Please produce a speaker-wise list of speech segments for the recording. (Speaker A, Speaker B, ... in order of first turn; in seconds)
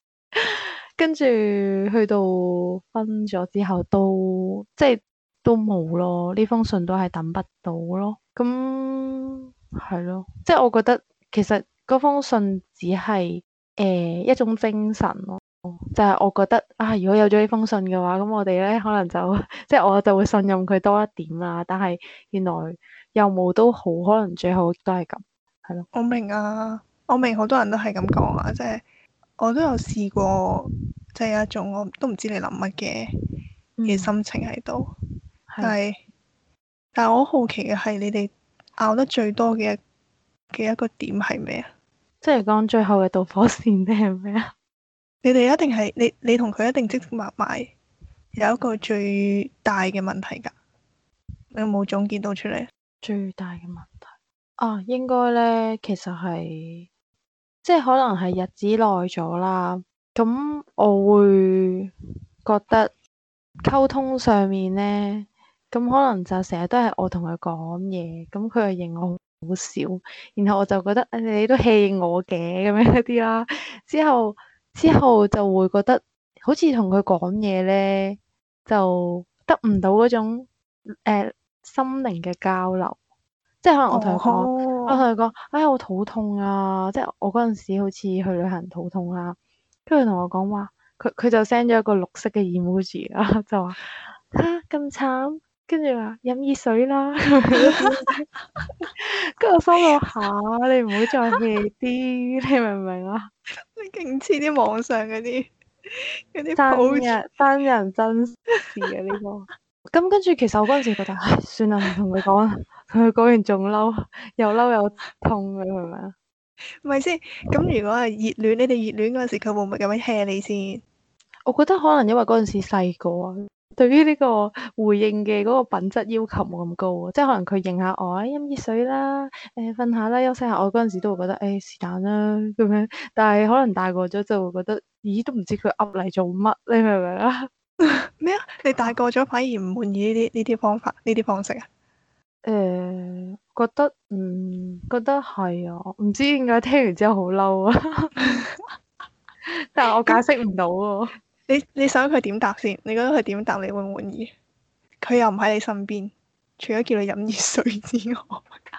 Speaker A: 0.3-25.9, 33.8-34.1, 35.5-35.8, 42.2-44.5, 53.0-56.9, 57.6-61.9, 62.5-62.9, 63.6-83.0, 83.6-98.2, 98.9-103.3, 106.5-116.2, 121.5-137.5, 142.4-148.3, 149.5-151.2
Speaker B: 25.9-28.8, 29.4-33.1, 33.9-34.9, 35.6-36.0, 36.9-39.8, 40.5-41.7, 45.2-47.7, 48.4-50.5, 51.5-52.7, 83.9-85.0, 103.7-107.2, 116.8-120.8, 137.8-141.7, 148.2-148.5, 151.5-154.3, 155.0-158.6